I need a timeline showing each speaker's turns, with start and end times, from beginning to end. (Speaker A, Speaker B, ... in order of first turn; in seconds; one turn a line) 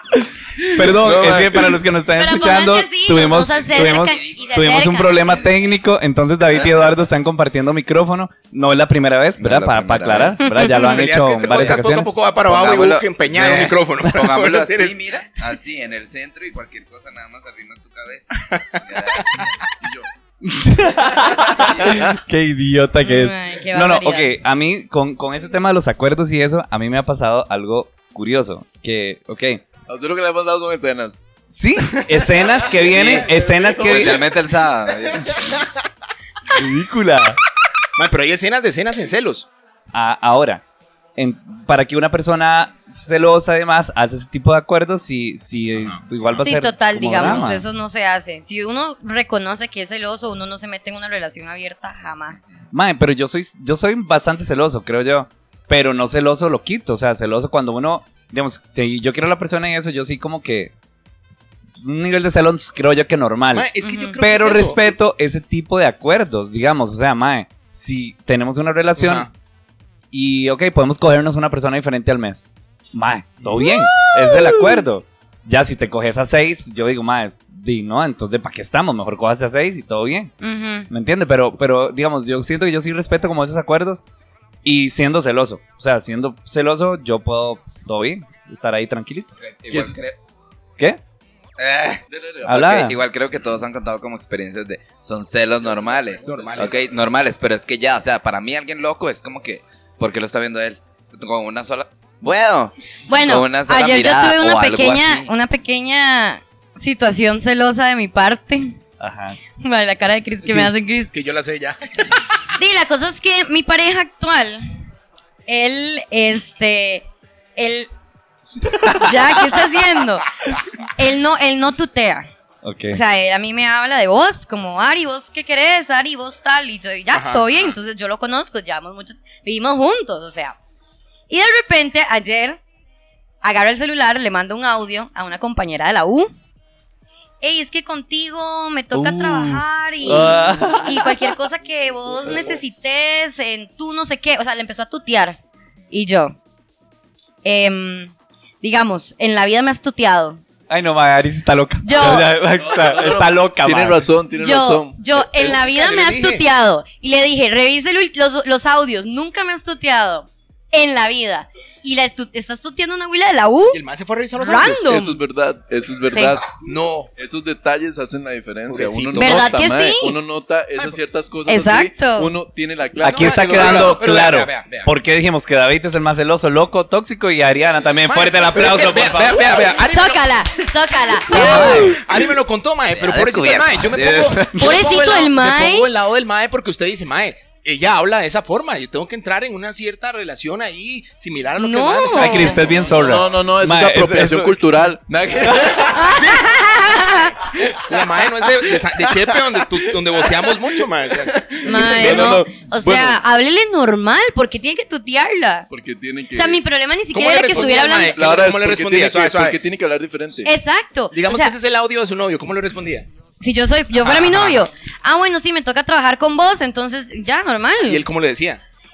Speaker A: 0.6-1.8
Speaker B: 0.7-12.2
Speaker C: 2.1-5.4
Speaker D: 3.7-5.5
Speaker D: 9.4-10.4
Speaker C: 10.4-11.0
Speaker E: 10.7-15.0
Speaker D: 11.5-11.8
Speaker D: 12.4-19.7
Speaker E: 18.5-19.5
Speaker A: 19.8-20.1
Speaker B: 20.4-29.6
Speaker C: 23.0-24.3
Speaker A: 29.9-31.2
Speaker B: 31.5-34.2
Speaker A: 32.6-34.2
Speaker D: 33.8-35.5
Speaker B: 36.5-37.4
Speaker E: 38.0-39.5
Speaker B: 39.9-40.6
Speaker B: 41.1-47.6
Speaker C: 46.4-52.4
Speaker E: 47.2-47.4
Speaker B: 52.7-60.7
Speaker B: 61.8-69.3
Speaker E: 63.5-64.9
Speaker C: 63.8-64.2
Speaker E: 69.0-69.3
Speaker B: 70.1-80.3
Speaker E: 73.4-74.7
Speaker C: 80.4-80.9
Speaker B: 80.9-84.0
Speaker B: 84.6-89.9
Speaker D: 89.4-90.2
Speaker D: 91.6-105.3
Speaker A: 92.1-92.7
Speaker B: 92.5-93.0
Speaker E: 96.2-96.8
Speaker C: 103.1-108.8
Speaker B: 109.0-109.4
Speaker C: 109.6-111.1
Speaker E: 110.4-112.1
Speaker C: 112.6-114.8
Speaker C: 115.5-117.9
Speaker C: 118.8-120.3
Speaker C: 120.9-122.3
Speaker B: 122.6-123.0
Speaker C: 122.9-130.6
Speaker E: 127.1-127.7
Speaker C: 131.3-132.6
Speaker C: 133.4-136.3
Speaker C: 137.4-145.4
Speaker B: 138.9-141.4
Speaker C: 145.9-146.4
Speaker C: 147.4-150.4
Speaker B: 150.7-154.0
Speaker C: 151.8-152.3
Speaker A: 152.5-155.2
Speaker C: 154.4-163.8
Speaker E: 155.3-156.4
Speaker E: 163.7-164.9
Speaker C: 164.4-165.2
Speaker A: 164.8-166.5
Speaker C: 166.1-166.4
Speaker E: 166.6-167.1
Speaker A: 167.2-174.0
Speaker E: 168.7-169.6
Speaker C: 169.2-170.2
Speaker C: 171.5-172.3
Speaker B: 173.0-179.6
Speaker E: 173.0-174.9
Speaker E: 178.1-180.4
Speaker C: 179.9-182.0
Speaker E: 181.3-193.2
Speaker B: 181.3-182.0
Speaker D: 182.9-184.5
Speaker C: 184.5-185.9
Speaker C: 191.6-192.6
Speaker B: 192.1-194.6
Speaker A: 192.6-196.1
Speaker C: 195.8-197.3
Speaker E: 196.1-202.4
Speaker A: 198.7-203.2
Speaker C: 201.6-205.7
Speaker A: 205.7-206.6
Speaker C: 206.3-208.2
Speaker E: 207.1-209.6
Speaker A: 207.5-210.5
Speaker C: 210.4-211.5
Speaker E: 211.1-213.1
Speaker C: 213.4-218.0
Speaker E: 214.0-214.6
Speaker E: 217.8-218.6